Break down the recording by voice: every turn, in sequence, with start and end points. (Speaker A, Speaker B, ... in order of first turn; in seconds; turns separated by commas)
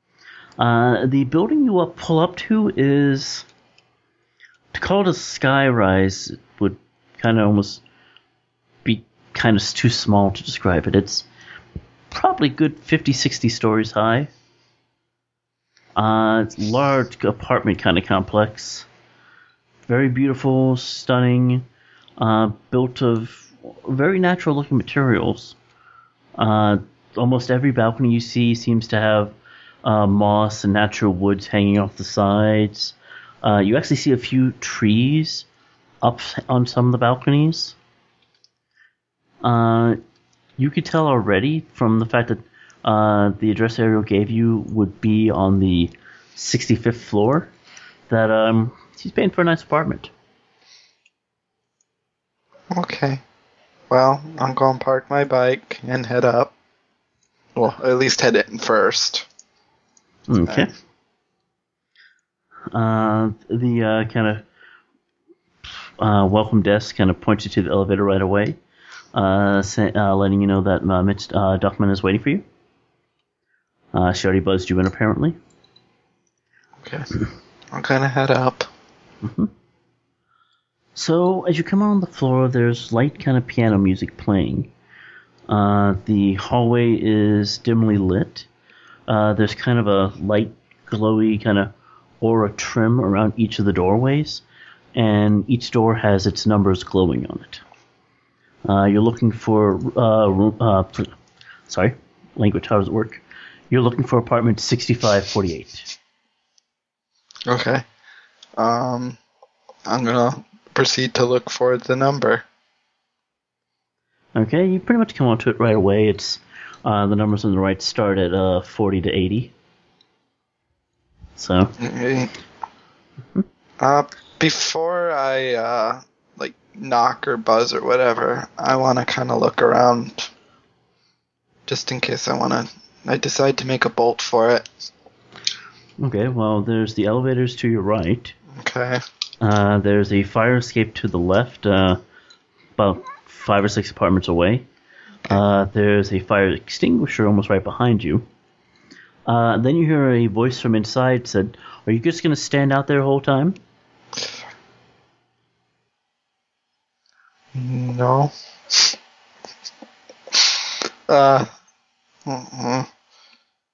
Speaker A: 0.6-3.5, Speaker A: 4.7-7.8, Speaker A: 8.8-11.3, Speaker A: 12.1-14.3, Speaker A: 16.0-18.9, Speaker A: 19.9-21.7, Speaker A: 22.2-25.6, Speaker A: 26.4-35.5, Speaker A: 36.0-37.8, Speaker A: 39.4-40.0, Speaker A: 40.6-47.5, Speaker A: 48.1-50.1, Speaker B: 52.7-53.2, Speaker B: 53.9-56.5, Speaker B: 57.5-59.3, Speaker A: 60.3-60.7, Speaker A: 62.7-64.5, Speaker A: 66.0-68.6, Speaker A: 69.1-72.5, Speaker A: 73.9-75.4, Speaker B: 76.8-77.1, Speaker B: 77.7-78.7, Speaker A: 79.2-79.5, Speaker A: 81.0-84.7, Speaker A: 85.5-88.5, Speaker A: 89.1-94.4, Speaker A: 95.0-97.6, Speaker A: 98.7-101.1, Speaker A: 101.7-105.9, Speaker B: 107.5-107.8, Speaker B: 108.6-109.2, Speaker B: 109.9-112.4, Speaker A: 114.3-119.5, Speaker A: 121.4-121.8, Speaker B: 121.8-122.3, Speaker B: 123.8-130.3, Speaker B: 131.7-134.7, Speaker A: 136.0-138.3, Speaker B: 138.5-139.0, Speaker A: 139.4-142.0, Speaker A: 142.8-144.7, Speaker A: 145.3-148.3, Speaker A: 149.3-153.6, Speaker B: 157.6-159.0, Speaker B: 160.3-161.5, Speaker B: 162.3-162.9